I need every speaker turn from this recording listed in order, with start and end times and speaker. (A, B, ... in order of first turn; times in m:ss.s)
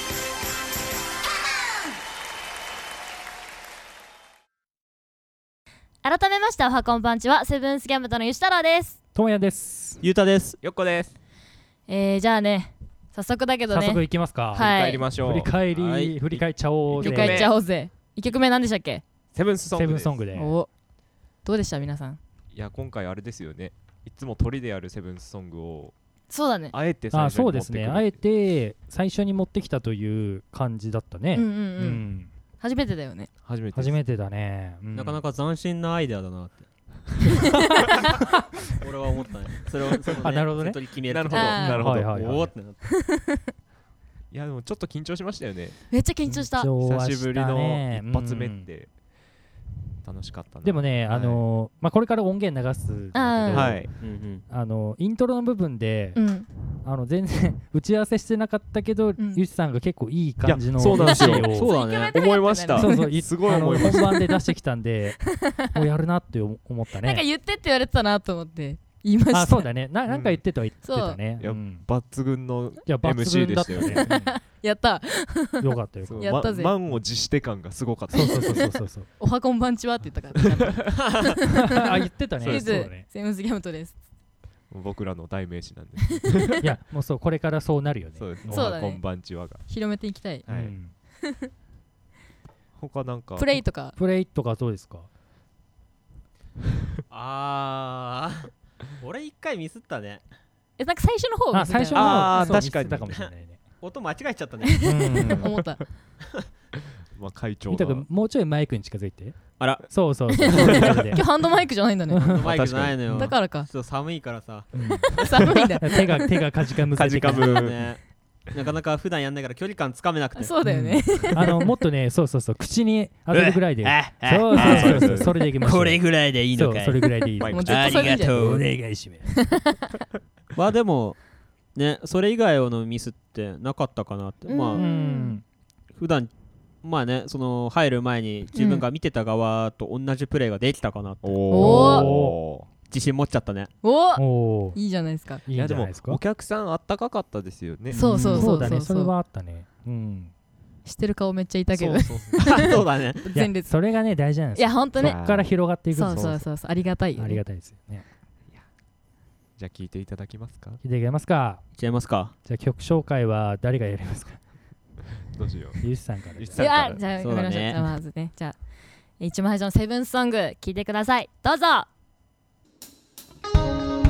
0:06.0-0:09.0 A
0:09.2-0:10.0 B
0:10.0-0:10.6 C
0:10.6-0:11.1 D
0:11.9-0:14.0 E
0:13.7-0:17.4 B
0:14.5-0:15.7 D
0:14.6-0:15.0 A
0:15.8-0:16.2 C
0:16.3-0:17.5 D
0:17.0-0:19.0 E
0:19.3-0:20.2 D
0:19.7-0:20.6 B
0:20.4-0:20.7 E
0:21.4-0:22.2 E
0:22.5-0:25.9 D
0:26.3-0:26.8 E
0:26.7-0:28.2 D
0:27.1-0:32.3 B
0:31.3-0:32.0 E
0:32.6-0:33.3 E
0:33.4-0:34.0 D
0:33.7-0:35.2 B
0:35.0-0:36.7 C
0:38.7-0:42.8 C
0:40.2-0:40.8 B
0:41.1-0:42.4 D
0:41.3-0:41.8 E
0:41.6-0:42.5 B
0:42.8-0:43.4 E
0:44.3-0:48.9 D
0:45.9-0:46.7 E
0:46.3-0:48.7 B
0:50.0-0:51.4 D
0:50.6-1:01.7 B
0:53.1-0:53.8 E
0:53.5-0:53.9 D
0:53.8-0:54.4 C
0:56.2-0:56.5 E
0:59.2-0:59.4 E
1:00.4-1:04.3 D
1:00.9-1:03.2 E
1:01.4-1:02.2 C
1:02.8-1:07.3 B
1:03.8-1:04.3 E
1:05.2-1:05.8 E
1:06.9-1:09.7 E
1:09.3-1:11.9 B
1:10.1-1:10.4 D
1:10.8-1:11.2 E
1:11.4-1:14.1 D
1:12.9-1:14.3 B
1:14.0-1:16.8 E
1:15.6-1:16.5 B
1:16.0-1:18.7 D
1:18.1-1:21.8 E
1:18.1-1:19.1 B
1:20.4-1:21.2 D
1:21.6-1:23.1 B
1:22.4-1:24.0 E
1:22.4-1:22.7 D
1:24.7-1:26.6 D
1:26.6-1:28.8 B
1:28.2-1:29.7 D
1:28.5-1:30.4 E
1:30.4-1:30.8 D
1:30.5-1:30.9 B
1:32.8-1:33.6 D
1:33.4-1:34.0 E
1:34.0-1:35.1 B
1:37.1-1:40.2 C
1:40.8-1:42.5 E
1:41.5-1:43.6 B
1:41.9-1:43.3 D
1:43.1-1:45.3 C
1:44.6-1:45.9 E
1:44.8-1:45.5 B
1:47.1-1:48.1 D
1:47.7-1:51.2 B
1:49.6-1:49.9 C
1:50.5-1:52.4 E
1:50.5-1:51.1 D
1:52.1-1:52.4 B
1:52.3-1:55.2 C
1:52.4-1:53.3 D
1:53.1-1:53.7 E
1:54.7-1:57.6 B
1:55.1-1:56.3 E
1:56.9-1:57.9 D
1:57.2-2:00.5 C
2:00.4-2:01.6 E
2:00.6-2:09.3 B
2:03.3-2:08.7 C
2:04.5-2:05.4 D
2:04.5-2:04.9 E
2:07.4-2:08.2 D
2:07.5-2:08.4 E
2:09.3-2:09.8 E
2:10.5-2:14.9 C
2:14.5-2:15.4 E
2:14.7-2:15.4 B
2:16.0-2:21.4 C
2:18.5-2:18.8 E
2:21.2-2:22.7 D
2:21.5-2:22.1 E
2:21.6-2:22.4 B
2:22.9-2:23.7 C
2:23.8-2:25.4 E
2:24.2-2:24.8 B
2:25.5-2:26.2 B
2:25.5-2:28.7 D
2:27.9-2:29.1 E
2:28.0-2:30.3 B
2:30.8-2:33.8 E
2:31.7-2:32.6 D
2:32.3-2:33.3 C
2:33.3-2:36.5 B
2:34.6-2:35.2 E
2:35.0-2:36.4 D
2:35.9-2:37.4 E
2:37.2-2:38.1 B
2:39.6-2:40.8 D
2:40.8-2:41.6 B
2:41.8-2:42.3 C
2:42.4-2:44.4 B
2:45.3-2:47.0 D
2:45.8-2:46.6 B
2:46.6-2:48.6 E
2:47.2-2:47.8 C
2:49.2-2:50.8 E
2:50.6-2:51.9 A